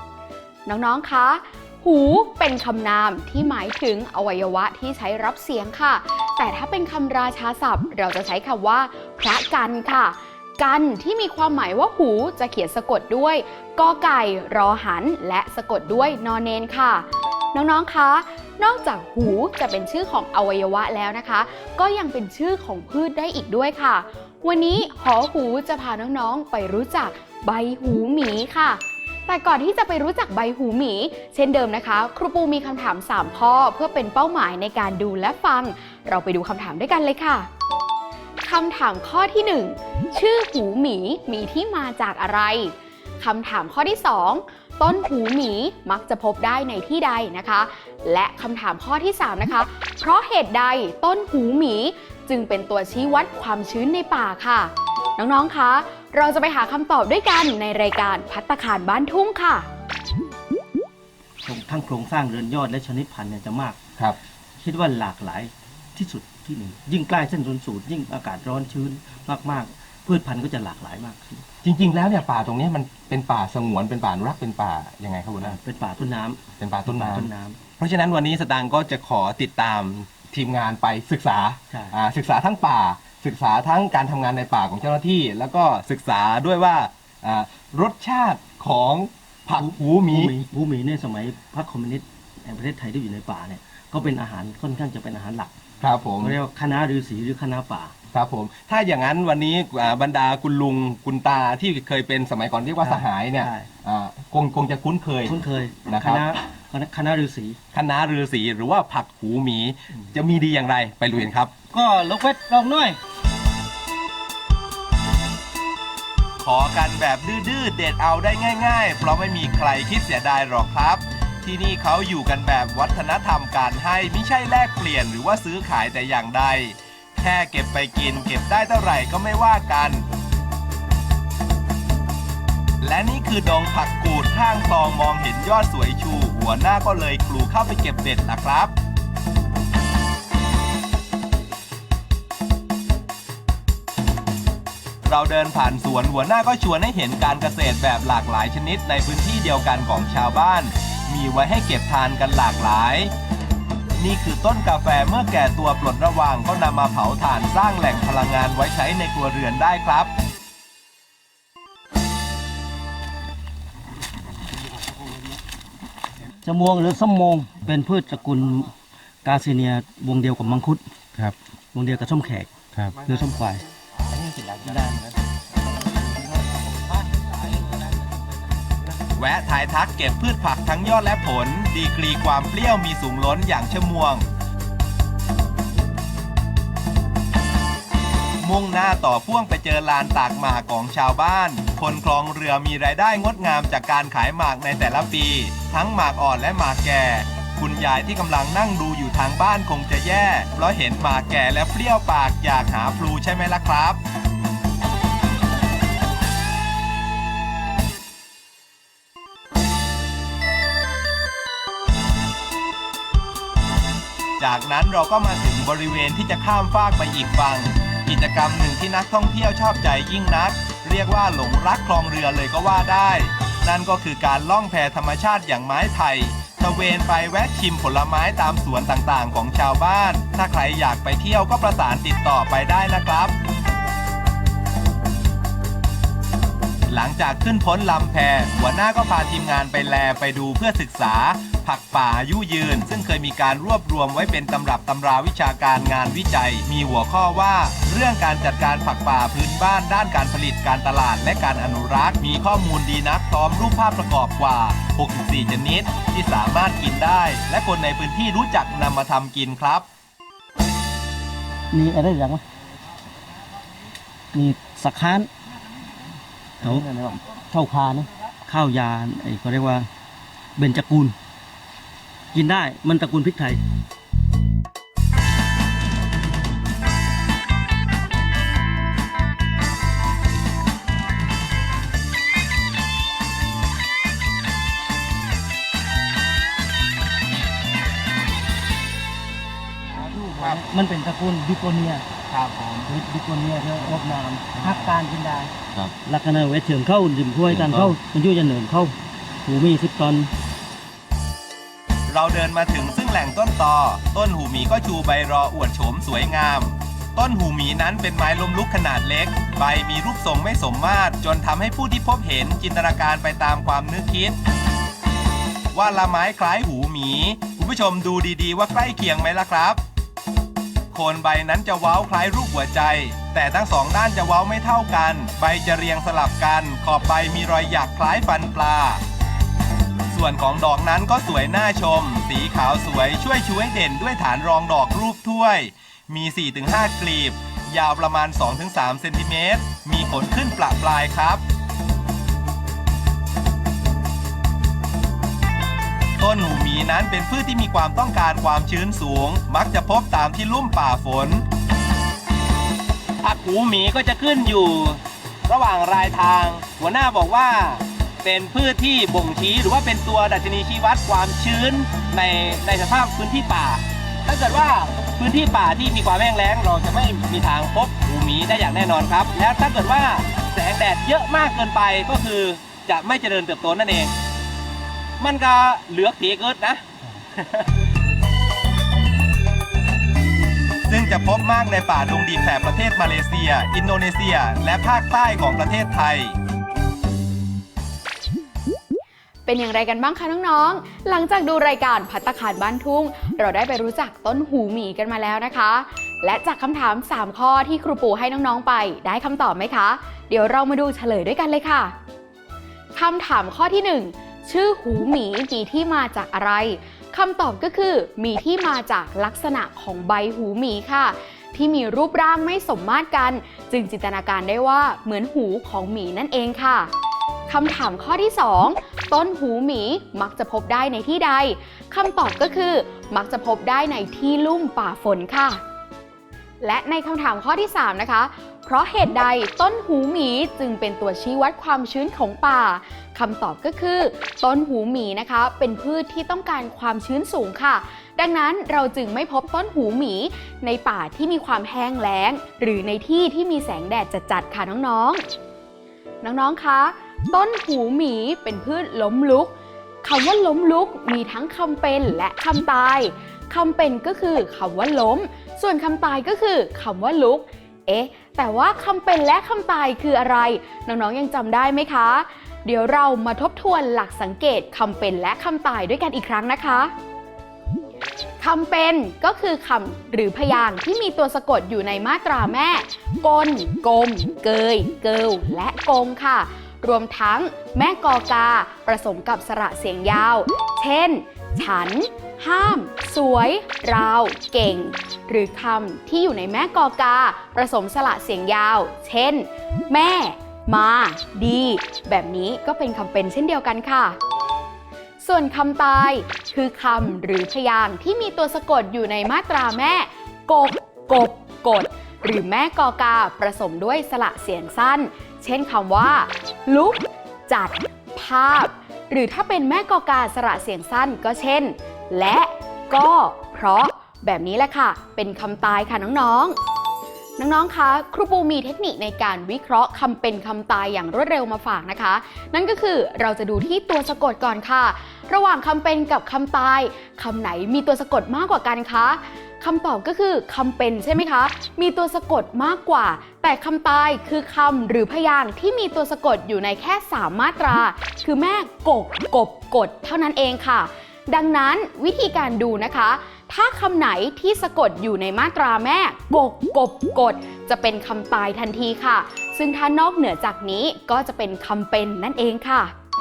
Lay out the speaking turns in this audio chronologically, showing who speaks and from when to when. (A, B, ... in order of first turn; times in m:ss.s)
0:00.7-0:37.5 A
0:38.4-0:59.7 A
1:01.4-1:03.8 B
1:04.6-1:11.4 B
1:11.6-1:15.6 C
1:15.4-1:17.6 B
1:16.6-1:30.3 C
1:29.6-1:35.6 B
1:35.8-1:36.4 C
1:36.2-1:37.9 B
1:38.1-1:46.4 C
1:42.8-1:43.7 B
1:45.2-1:47.6 B
1:47.7-1:51.7 C
1:51.7-1:53.0 B
1:56.4-2:10.0 C
2:12.8-2:18.7 C
2:25.0-2:33.1 C
2:34.0-2:40.1 C
2:46.4-2:48.7 B
2:49.2-2:50.8 B
2:51.7-2:53.6 B
2:54.2-2:54.8 C
2:54.4-2:55.1 B
2:59.2-3:04.3 C
3:08.4-3:24.0 C
3:34.4-3:53.3 C
3:56.9-4:19.8 C
4:21.7-4:22.4 B
4:24.3-4:25.3 B
4:26.6-4:29.9 B
4:30.6-4:31.2 B
4:32.3-4:33.6 B
4:50.0-4:52.0 B
4:50.4-4:50.6 C
4:52.3-4:52.9 C
4:52.9-4:55.5 B
4:54.6-4:54.9 C
4:56.1-5:00.3 B
4:57.5-4:58.0 C
5:02.1-5:14.4 C
5:15.7-5:19.8 C
5:20.9-5:29.0 C
5:30.1-5:41.4 C
5:46.2-5:51.4 C
5:53.2-6:14.1 C
6:15.2-6:16.8 C
6:17.3-6:17.7 C
6:20.9-6:26.4 C
6:29.4-6:41.9 A
6:42.9-6:56.9 A
6:57.5-7:05.6 A
7:06.6-7:25.2 A
7:26.2-7:46.9 A
7:48.4-8:14.2 A
8:15.2-8:36.6 A
8:37.4-9:12.9 A